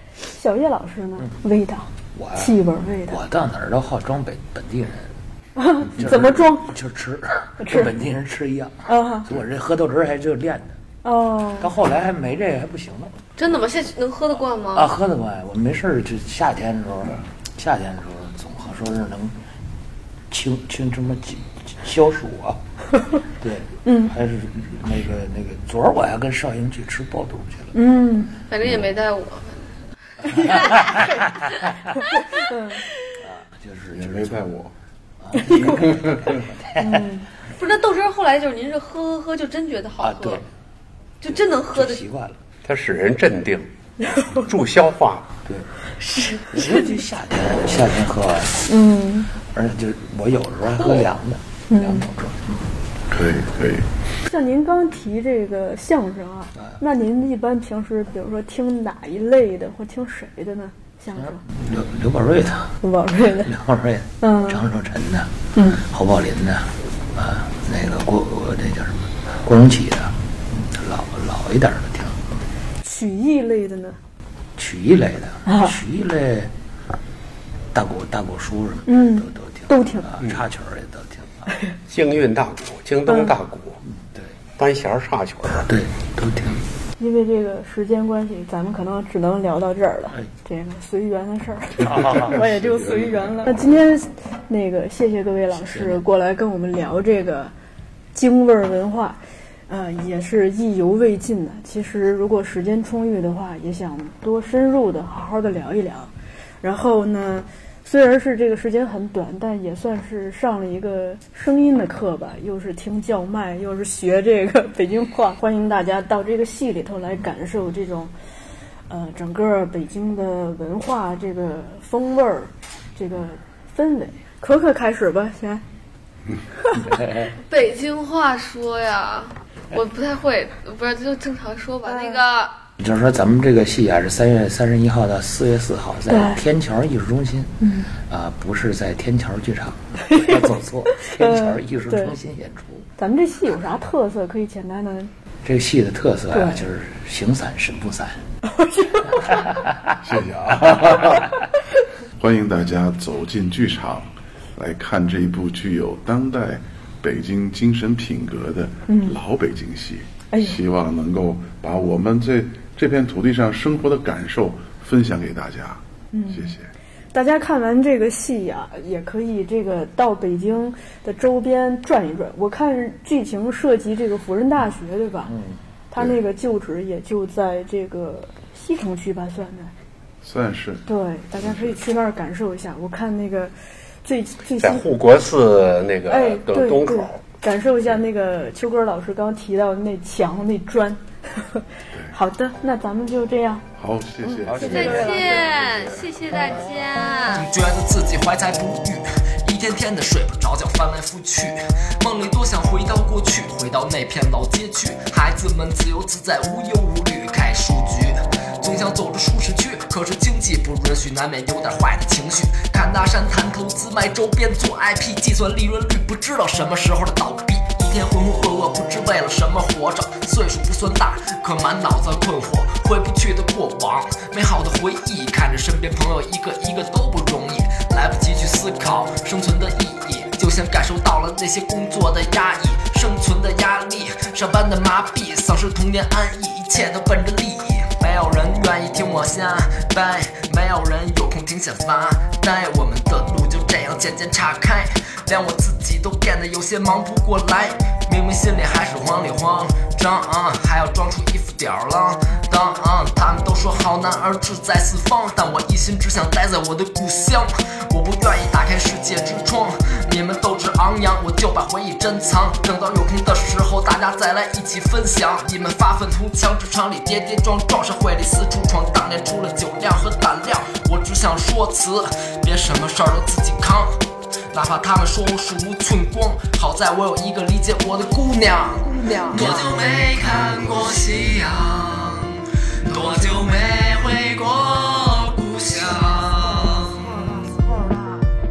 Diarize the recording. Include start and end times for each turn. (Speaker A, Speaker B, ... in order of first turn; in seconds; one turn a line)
Speaker A: 0.3-3.2
Speaker B: 2.1-5.1
Speaker A: 5.6-6.7
Speaker B: 5.9-10.8
Speaker A: 7.6-7.9
Speaker A: 8.9-9.3
Speaker A: 11.0-11.7
Speaker B: 11.6-13.2
Speaker C: 13.4-14.9
Speaker B: 14.7-19.4
Speaker B: 20.3-22.6
Speaker B: 23.4-27.8
Speaker A: 23.9-24.1
Speaker A: 27.7-28.3
Speaker C: 28.5-29.7
Speaker B: 30.3-31.4
Speaker A: 32.4-32.8
Speaker B: 33.2-34.5
Speaker D: 33.9-34.7
Speaker B: 35.2-37.1
Speaker A: 36.8-37.3
Speaker C: 37.6-40.4
Speaker B: 40.0-40.5
Speaker C: 41.2-42.0
Speaker B: 41.3-42.4
Speaker E: 42.7-43.7
Speaker E: 44.3-45.3
Speaker B: 45.5-45.7
Speaker C: 46.0-46.4
Speaker B: 46.5-48.8
Speaker A: 48.7-49.3
Speaker B: 49.4-52.7
Speaker A: 51.7-52.1
Speaker D: 53.1-53.9
Speaker A: 54.3-61.4
Speaker B: 61.1-72.2
Speaker A: 62.8-63.5
Speaker A: 64.2-64.6
Speaker A: 72.8-74.0
Speaker B: 74.6-76.5
Speaker A: 75.5-75.8
Speaker B: 77.7-81.5
Speaker A: 78.9-80.1
Speaker E: 81.9-83.8
Speaker A: 83.1-83.3
Speaker E: 84.6-85.7
Speaker B: 85.7-86.7
Speaker A: 87.0-97.5
Speaker B: 91.8-92.4
Speaker B: 95.7-96.0
Speaker A: 98.1-118.1
Speaker A: 118.9-125.6
Speaker B: 126.8-127.3
Speaker C: 127.4-132.6
Speaker A: 131.9-132.2
Speaker B: 132.8-142.9
Speaker A: 136.1-136.4
Speaker A: 141.1-142.1
Speaker A: 143.0-145.1
Speaker B: 145.4-148.2
Speaker A: 146.3-146.7
Speaker A: 148.6-149.1
Speaker B: 149.3-149.9
Speaker D: 150.0-151.3
Speaker D: 152.2-166.7
Speaker A: 158.9-159.2
Speaker A: 160.3-160.6
Speaker A: 166.1-166.5
Speaker A: 167.1-175.3
Speaker B: 175.3-175.6
Speaker A: 175.9-179.7
Speaker D: 180.2-180.9
Speaker A: 180.9-184.8
Speaker D: 181.4-181.8
Speaker E: 184.6-187.2
Speaker A: 186.1-193.7
Speaker D: 193.8-196.1
Speaker A: 194.2-195.4
Speaker B: 194.5-195.4
Speaker C: 194.6-197.5
Speaker F: 197.3-274.0
Speaker F: 274.5-287.8
Speaker A: 279.1-279.5